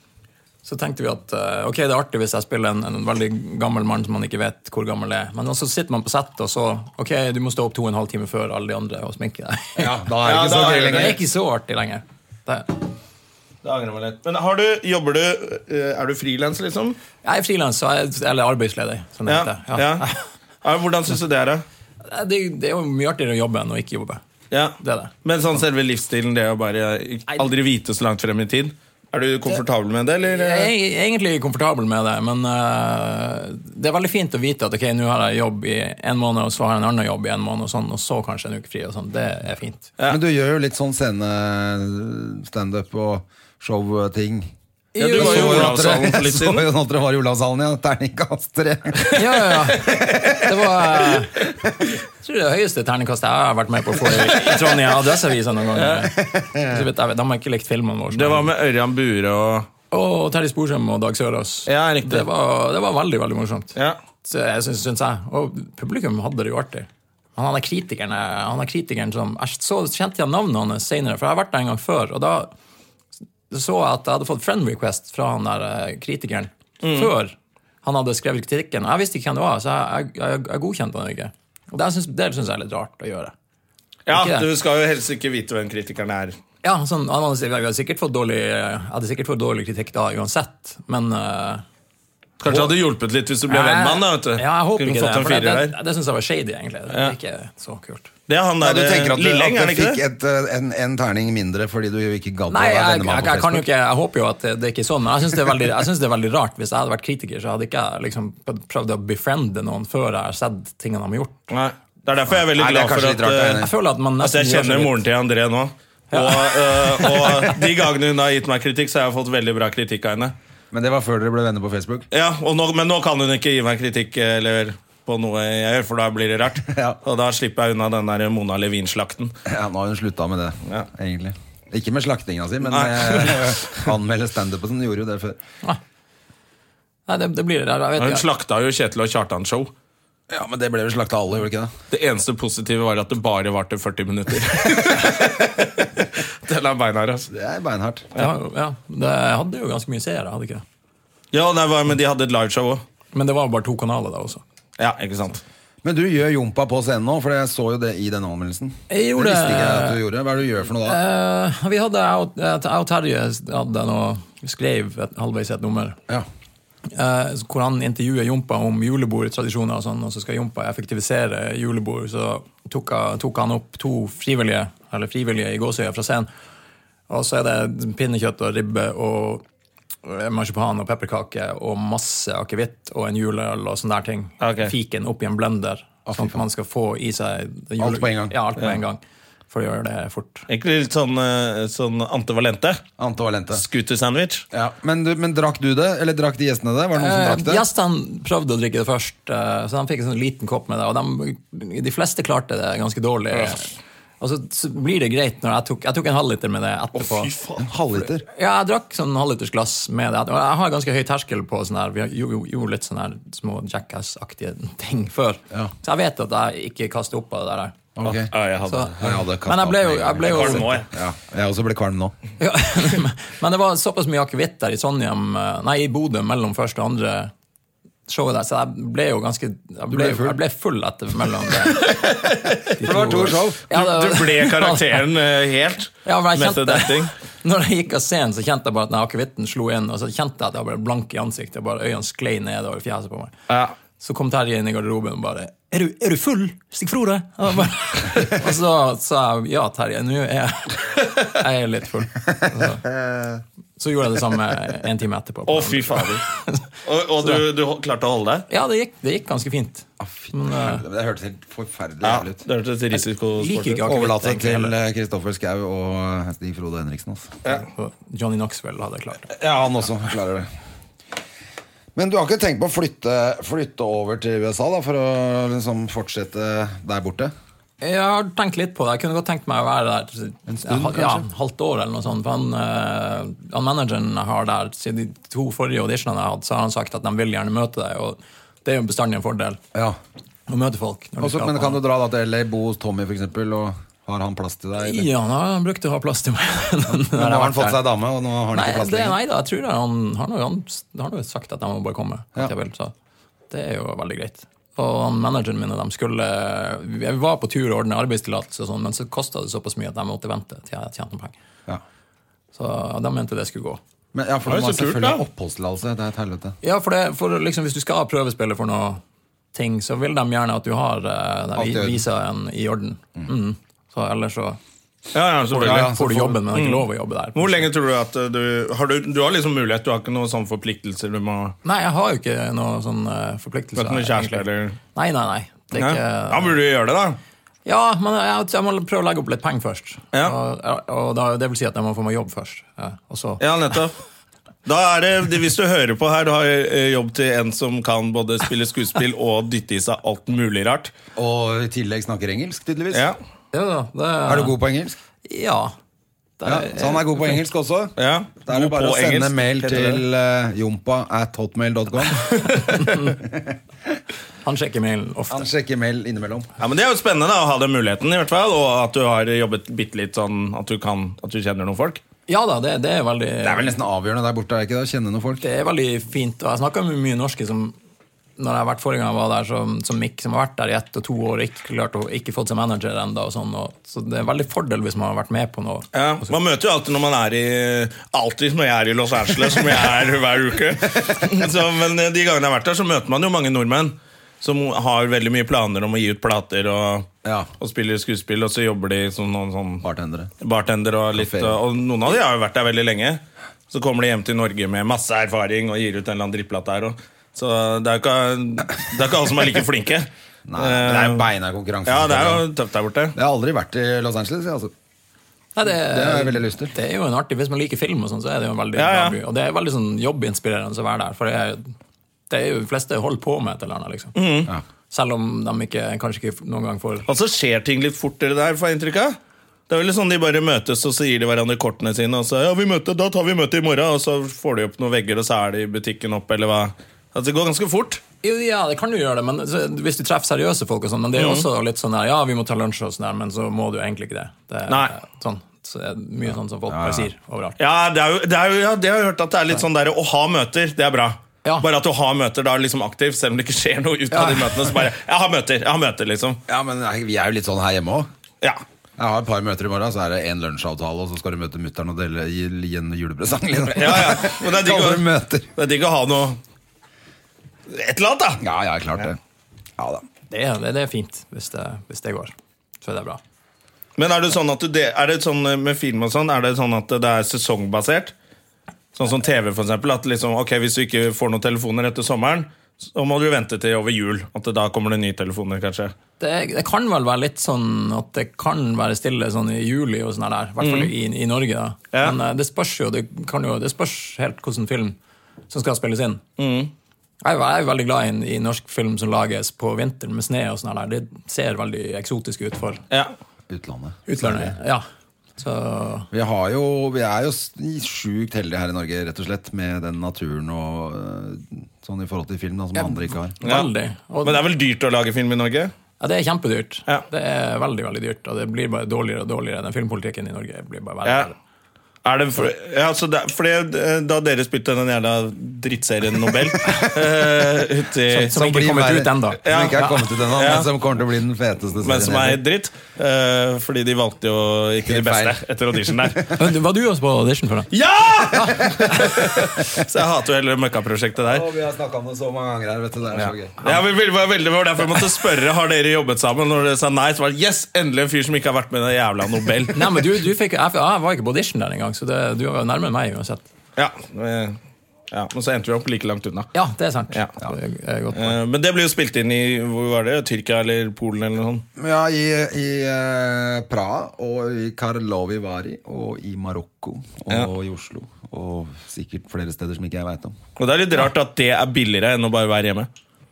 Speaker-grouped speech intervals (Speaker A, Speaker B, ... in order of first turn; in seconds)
Speaker A: 0.6-10.0, 10.5-12.8, 17.2-20.2, 22.1-24.2, 24.8-25.1, 30.2-39.9, 44.9-46.0, 49.1-51.4, 52.2-58.5, 59.9-63.7, 64.2-72.5, 73.5-83.3, 84.1-84.5, 86.6-91.6, 93.5-98.1, 102.5-111.5, 113.6-115.0, 116.1-117.6, 137.1-138.2, 148.2-150.6, 153.1-154.4, 158.9-160.0, 160.8-166.0, 166.9-176.3, 177.1-179.4, 180.1-190.5, 197.0-207.3, 208.3-217.8, 218.6-220.8, 222.4-227.3, 228.1-232.0, 232.8-235.0, 236.1-243.3, 244.0-252.8, 253.8-256.7, 258.5-260.8, 263.4-264.7, 267.5-269.3, 277.8-289.6, 290.5-291.8, 294.8-297.8, 298.5-302.9, 303.5-311.4, 312.5-313.8, 316.6-319.0, 319.5-324.6, 325.6-327.7, 331.6-334.4, 334.9-336.6, 337.6-343.4, 353.5-354.6, 355.2-355.7, 356.4-357.4, 362.6-363.2, 364.4-365.5, 372.3-373.8, 375.4-377.8, 378.4-386.4, 415.6-421.7, 422.3-424.2, 424.9-427.1, 438.2-447.6, 470.3-473.2, 486.2-495.0, 495.5-496.2, 497.2-502.8, 504.1-504.8, 505.4-506.1, 512.8-514.4, 516.0-521.4, 528.1-530.0, 536.3-537.7, 549.7-553.5, 556.5-558.4
Speaker B: 9.8-11.2, 40.1-49.1, 49.7-50.9, 51.4-51.8, 56.2-56.9, 98.6-103.7, 112.3-113.7, 120.7-122.0, 126.7-127.0, 129.5-135.4, 140.3-141.7, 147.3-148.1, 155.8-161.0, 186.1-186.4, 187.8-188.4, 193.0-193.6, 194.5-197.6, 207.6-208.2, 218.0-218.3, 219.0-222.1, 229.9-230.4, 232.8-233.6, 252.9-253.4, 260.0-262.4, 263.9-267.4, 269.3-270.5, 271.9-277.3, 280.5-281.3, 291.2-295.1, 296.9-299.2, 314.1-316.6, 321.6-322.0, 325.5-326.4, 351.2-353.1, 354.3-355.0, 356.4-362.6, 363.2-363.6, 365.3-366.5, 373.4-375.4, 397.2-397.5, 399.8-400.3, 401.1-401.6, 410.5-412.5, 413.1-414.7, 415.6-416.7, 446.7-447.1, 456.5-458.1, 459.0-465.5, 468.4-469.2, 469.8-470.0, 503.5-504.6, 506.1-513.4, 528.2-532.4, 534.8-536.3, 538.2-539.8, 541.2-543.8, 561.8-570.4
Speaker C: 10.2-11.2, 13.6-17.0, 19.3-20.1, 20.6-21.6, 24.5-30.7, 45.0-46.7, 58.1-59.7, 61.7-62.3, 76.8-77.1, 84.1-86.4, 92.4-95.8, 96.9-97.1, 98.3-100.0, 111.5-113.7, 114.2-120.3, 122.1-129.3, 132.7-133.8, 138.0-139.7, 141.9-147.3, 151.3-152.8, 154.8-155.4, 184.4-184.7, 190.5-192.8, 193.5-194.4, 206.9-207.7, 218.1-219.2, 220.3-220.9, 231.9-232.6, 233.7-237.1, 243.5-243.7, 255.5-256.3, 256.8-258.5, 262.0-263.8, 314.5-315.2, 325.1-326.0, 326.5-331.6, 333.8-334.8, 335.8-337.2, 343.4-343.9, 344.7-350.9, 358.0-360.0, 362.3-362.7, 366.6-372.0, 385.9-397.1, 397.6-399.8, 400.4-411.3, 411.9-413.1, 418.8-419.2, 424.1-424.5, 427.1-429.2, 429.7-438.0, 441.2-441.5, 444.7-444.9, 447.6-456.4, 463.8-466.4, 467.7-468.4, 474.0-478.1, 478.9-485.9, 490.6-490.9, 491.9-492.2, 496.4-496.7, 513.4-513.7, 514.2-515.7, 521.0-521.3, 522.0-528.4, 529.5-530.7, 531.8-536.3, 537.7-541.5, 543.1-550.1, 553.8-554.6, 555.1-556.5, 558.1-561.6, 570.6-572.9